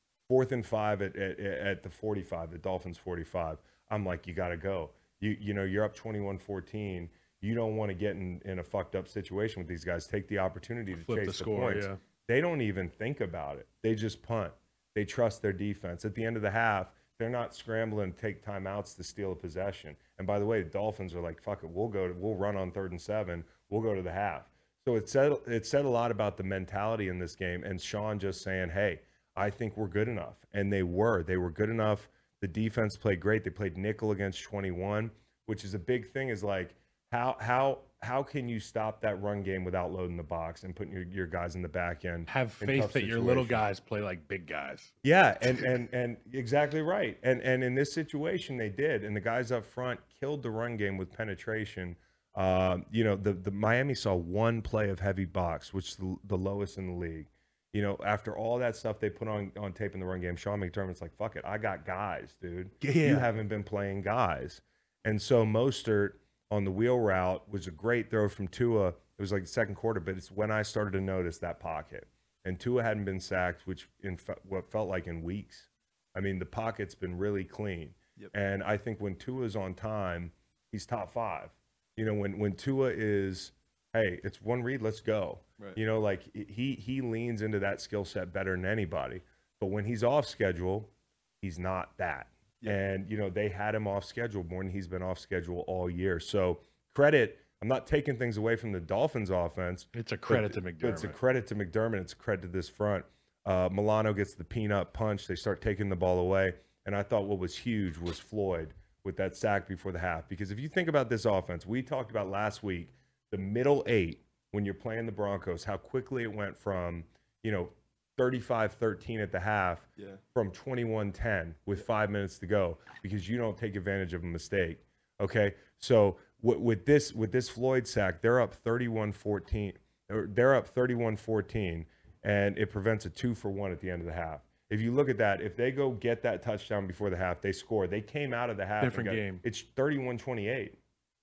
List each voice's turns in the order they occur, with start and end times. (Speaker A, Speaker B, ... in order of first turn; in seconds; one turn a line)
Speaker A: 0.3-43.6
Speaker B: 10.9-12.0
Speaker B: 42.3-44.9
Speaker A: 45.0-90.9
Speaker B: 62.8-63.3
Speaker A: 91.4-140.8
Speaker B: 99.9-101.2
Speaker B: 138.8-139.4